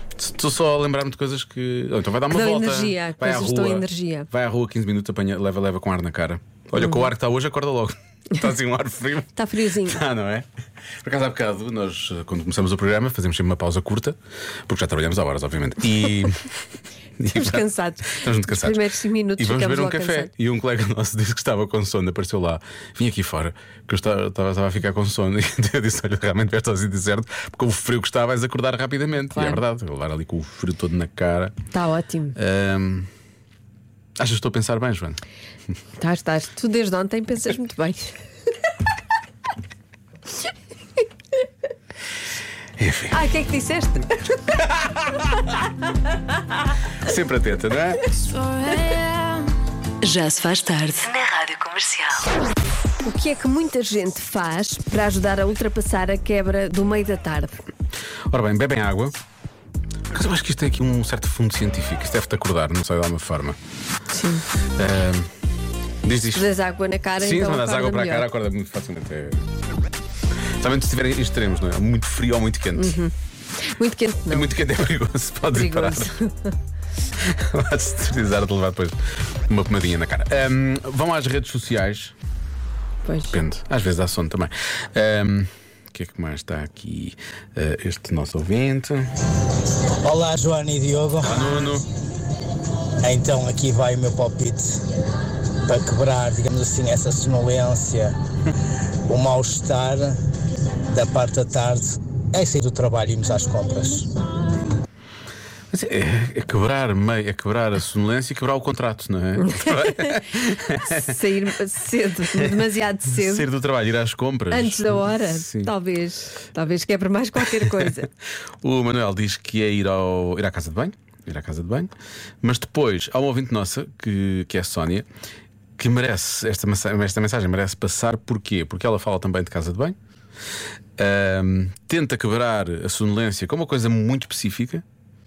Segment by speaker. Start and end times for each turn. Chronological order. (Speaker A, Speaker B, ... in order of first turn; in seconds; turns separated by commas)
Speaker A: 0.2-10.4, Speaker B: 2.3-4.3, Speaker B: 6.8-7.1, Speaker B: 9.3-10.0, Speaker A: 11.0-14.2, Speaker A: 14.7-16.5, Speaker A: 17.2-18.8, Speaker B: 17.3-20.3, Speaker A: 19.4-31.6, Speaker B: 29.3-29.6, Speaker B: 31.7-32.3, Speaker A: 32.4-33.1, Speaker A: 34.2-35.2, Speaker B: 36.0-38.1, Speaker A: 42.8-43.2, Speaker B: 43.1-44.2, Speaker A: 44.6-45.5, Speaker A: 47.0-48.0, Speaker B: 48.1-49.5, Speaker C: 50.0-52.3, Speaker B: 53.0-57.6, Speaker A: 58.3-59.1, Speaker A: 60.1-63.6, Speaker B: 64.1-64.5, Speaker A: 64.8-65.3, Speaker A: 66.0-66.5, Speaker B: 66.3-68.2, Speaker A: 67.2-69.5, Speaker A: 70.6-73.0, Speaker B: 72.8-74.5, Speaker A: 74.3-76.1, Speaker B: 75.5-76.5, Speaker A: 77.2-79.0, Speaker A: 79.5-82.1, Speaker B: 83.0-83.4, Speaker A: 83.3-89.1, Speaker D: 90.0-91.8, Speaker A: 91.2-91.8, Speaker D: 93.0-94.7, Speaker D: 95.6-98.1, Speaker D: 99.1-100.2, Speaker D: 100.9-104.1, Speaker A: 105.7-111.1, Speaker B: 109.4-113.5, Speaker A: 113.1-115.7, Speaker B: 114.5-118.1, Speaker A: 117.6-117.9, Speaker A: 118.6-121.9, Speaker A: 122.4-125.0, Speaker A: 125.8-129.9, Speaker A: 131.0-134.8